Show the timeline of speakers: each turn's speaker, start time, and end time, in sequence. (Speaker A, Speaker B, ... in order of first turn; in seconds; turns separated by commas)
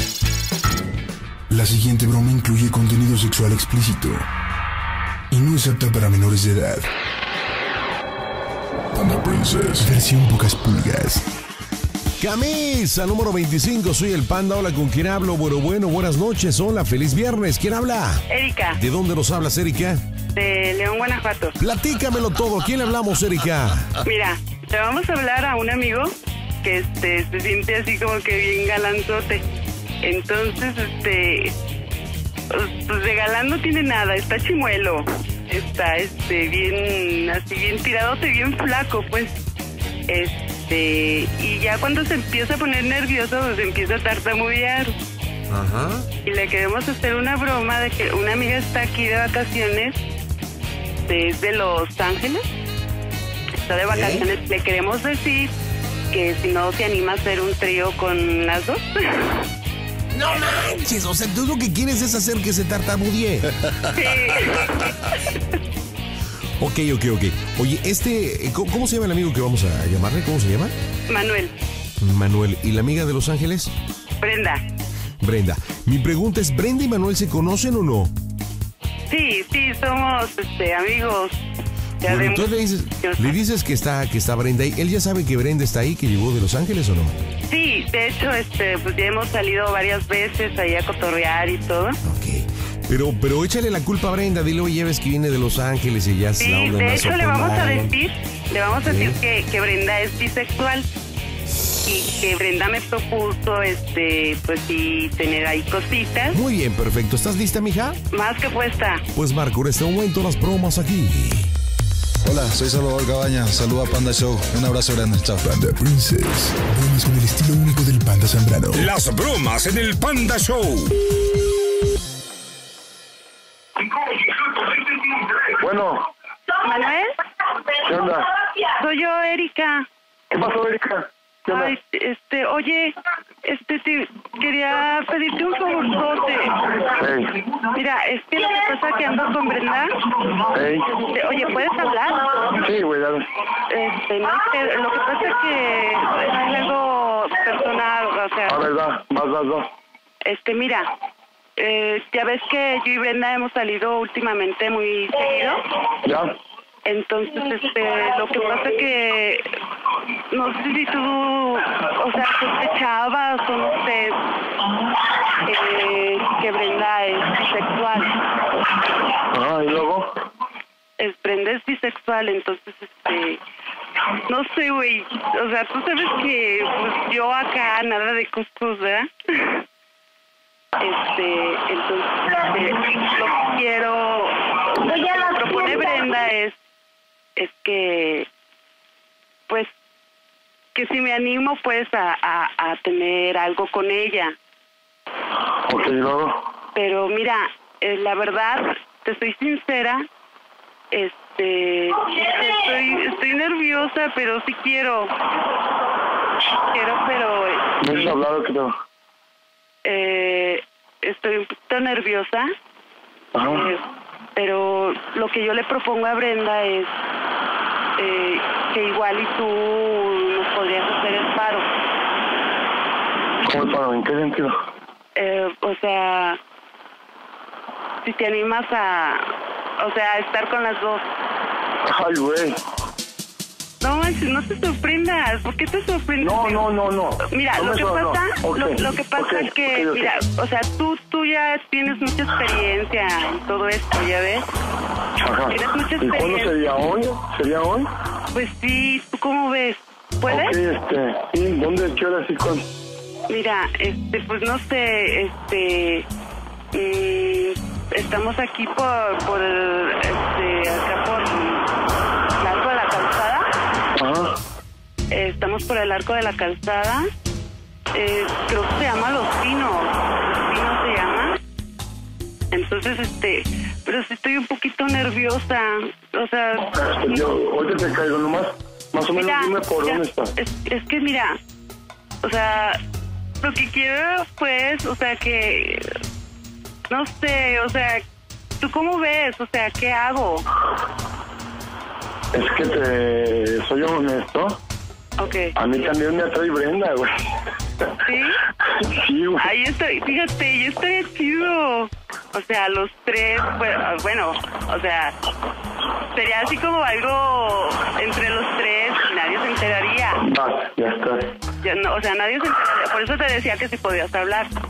Speaker A: 1.5-4.2, Speaker A: 5.3-6.9, Speaker A: 8.9-11.2, Speaker B: 12.2-20.0, Speaker C: 18.3-18.8, Speaker C: 20.3-21.6, Speaker B: 21.6-23.9, Speaker C: 24.0-26.1, Speaker C: 26.6-29.4, Speaker C: 30.0-31.5, Speaker C: 32.5-39.4, Speaker C: 40.1-44.9, Speaker B: 45.5-46.1, Speaker C: 46.2-50.0, Speaker C: 51.0-52.4, Speaker C: 53.6-55.5, Speaker B: 53.9-54.3, Speaker C: 56.1-59.3, Speaker B: 60.1-63.5, Speaker C: 63.9-65.2, Speaker B: 66.6-70.7, Speaker C: 71.1-71.5, Speaker B: 72.0-73.7, Speaker C: 74.2-74.6, Speaker B: 75.2-78.1, Speaker C: 79.1-81.3, Speaker C: 82.0-82.5, Speaker B: 82.0-87.2, Speaker C: 83.0-83.3, Speaker C: 87.5-92.0, Speaker B: 92.0-97.9, Speaker C: 96.4-100.8, Speaker B: 98.8-99.2, Speaker C: 101.8-106.4, Speaker B: 106.3-108.0, Speaker C: 108.1-109.0, Speaker B: 109.1-111.5, Speaker D: 112.2-115.4, Speaker A: 115.4-118.9, Speaker E: 118.7-121.0, Speaker F: 125.5-126.1, Speaker C: 126.6-127.1, Speaker F: 127.8-128.3, Speaker C: 128.7-129.8, Speaker F: 130.3-131.7, Speaker C: 131.5-136.7, Speaker F: 136.9-137.3, Speaker C: 137.6-140.1, Speaker F: 140.5-140.9, Speaker C: 141.0-142.5, Speaker F: 142.6-143.2, Speaker C: 143.7-148.6, Speaker F: 148.5-149.7, Speaker C: 150.2-150.9, Speaker C: 151.6-155.7, Speaker F: 156.0-156.3, Speaker C: 156.8-159.4, Speaker C: 160.3-164.2, Speaker C: 165.4-168.2, Speaker F: 169.3-170.1, Speaker C: 171.0-173.4, Speaker C: 174.3-179.6, Speaker C: 180.8-186.5, Speaker C: 187.4-188.3, Speaker C: 190.7-194.3, Speaker F: 195.7-196.4, Speaker C: 196.7-200.1, Speaker C: 200.9-205.1, Speaker C: 206.7-208.1, Speaker F: 207.8-208.8, Speaker C: 209.8-212.5, Speaker F: 213.3-213.7, Speaker C: 213.4-213.8, Speaker C: 214.3-216.9, Speaker C: 218.0-221.7, Speaker F: 223.4-224.6, Speaker C: 225.2-226.4, Speaker C: 228.0-229.3, Speaker C: 229.8-231.0, Speaker F: 231.8-232.6, Speaker C: 233.8-236.7, Speaker F: 236.2-240.1, Speaker C: 237.3-244.4, Speaker F: 245.2-247.9, Speaker C: 245.5-246.6, Speaker C: 248.3-250.6, Speaker F: 250.3-252.6, Speaker C: 253.3-256.1, Speaker C: 256.7-261.6, Speaker C: 262.4-263.5, Speaker F: 264.0-264.3, Speaker C: 265.1-267.1, Speaker C: 267.9-271.4, Speaker C: 272.5-277.2, Speaker F: 276.6-280.3, Speaker C: 279.1-281.4, Speaker C: 282.2-282.8, Speaker C: 283.4-285.9, Speaker C: 286.9-288.0, Speaker C: 288.6-290.4, Speaker F: 292.3-294.6, Speaker C: 295.2-295.5, Speaker F: 295.6-297.1, Speaker C: 298.0-298.4, Speaker F: 298.6-299.5, Speaker C: 299.4-305.1, Speaker C: 306.1-310.2, Speaker F: 310.2-311.3, Speaker C: 311.6-314.5